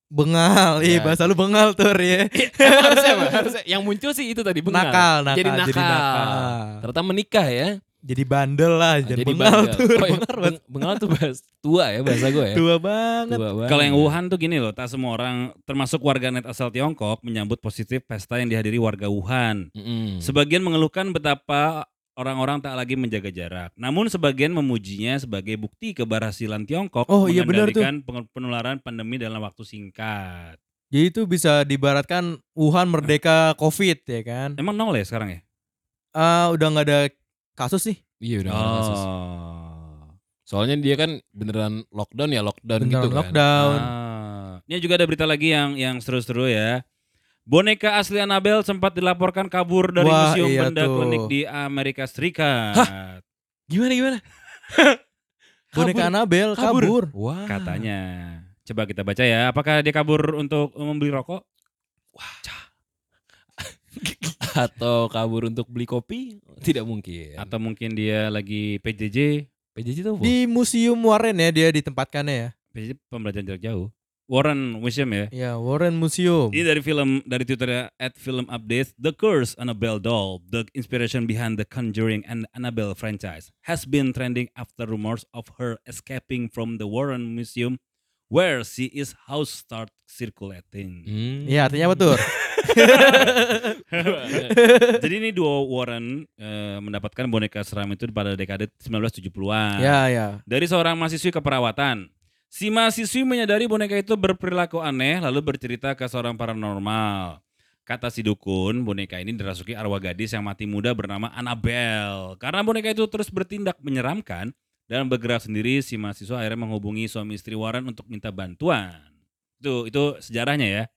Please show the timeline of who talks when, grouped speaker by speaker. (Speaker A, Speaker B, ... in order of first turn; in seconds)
Speaker A: 0.1-3.5, 4.7-6.8, 8.1-11.0, 12.1-13.4, 27.1-27.9, 30.9-34.6, 36.2-38.0, 42.8-43.9, 50.0-51.3, 55.7-57.1, 70.2-72.5, 75.3-76.6, 91.5-93.8, 94.3-95.0, 99.8-100.4
Speaker B: 0.8-1.3, 2.3-7.8, 9.1-12.6, 13.3-14.2, 19.8-20.3, 38.2-39.0, 40.5-43.4, 53.7-54.2, 55.7-57.9, 62.1-62.4, 63.6-67.5, 69.8-70.3, 91.1-93.3, 93.9-94.6
Speaker C: 13.7-19.6, 20.2-30.6, 34.6-35.4, 38.5-40.1, 43.6-46.8, 47.5-53.2, 57.5-61.4, 67.4-69.4, 72.7-75.3, 76.5-87.8, 88.3-91.1, 92.8-93.4, 93.9-94.4, 94.9-99.9, 100.5-119.0, 119.6-120.9